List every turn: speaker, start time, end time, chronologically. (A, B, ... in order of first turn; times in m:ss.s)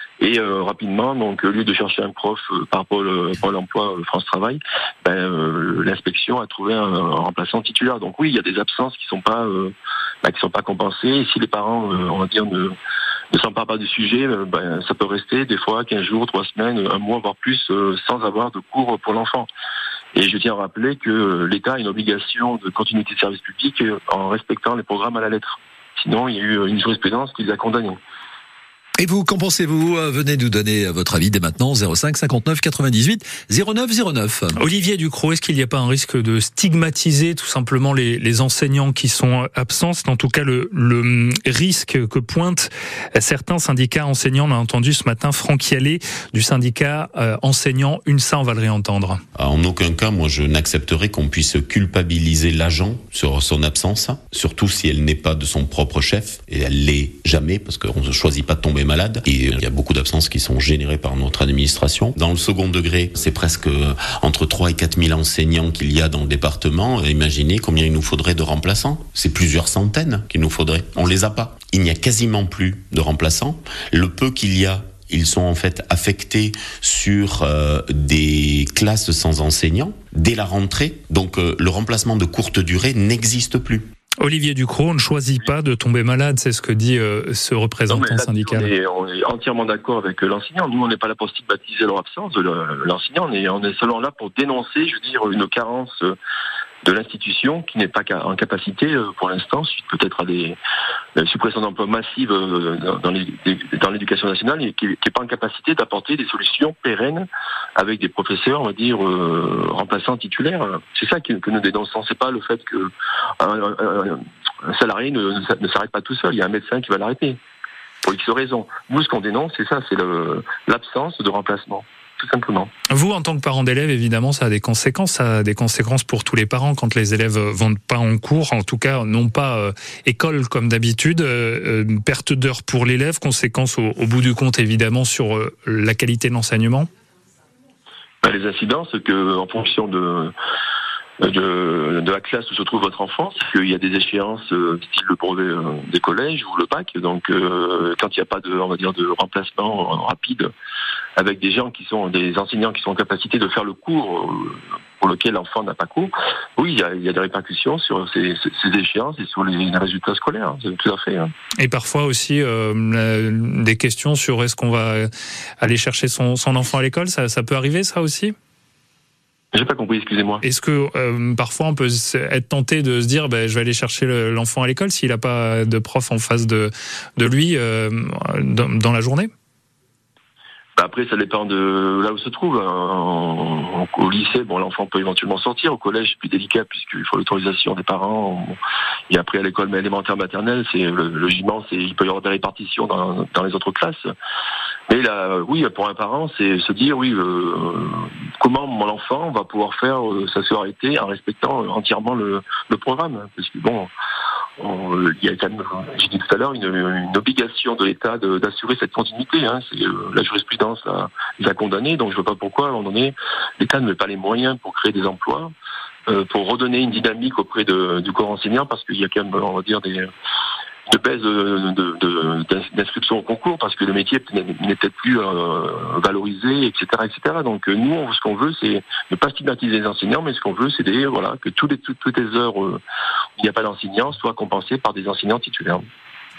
0:00.2-0:12.7 A
0:13.3-0:19.5 A
0:20.1-0:28.0 A
0:29.0-0:34.6 B
0:34.6-0:49.2 C
0:49.3-1:23.9 D
1:24.2-1:28.7 C
1:27.9-1:36.2 A
1:36.8-1:40.6 A
1:41.2-1:57.4 A
1:58.0-2:02.7 A
2:02.9-2:16.9 C
2:18.2-2:20.3 A
2:21.2-2:30.5 A
2:31.2-2:41.3 A
2:41.6-2:45.1 C
2:45.6-2:48.3 C
2:49.5-2:50.4 A
2:50.4-2:59.3 C
3:00.8-3:08.6 A
3:09.1-3:14.1 A
3:14.9-3:23.9 A
3:24.6-3:35.5 A
3:36.1-3:40.1 A
3:40.9-3:52.8 A
3:53.4-3:55.8 A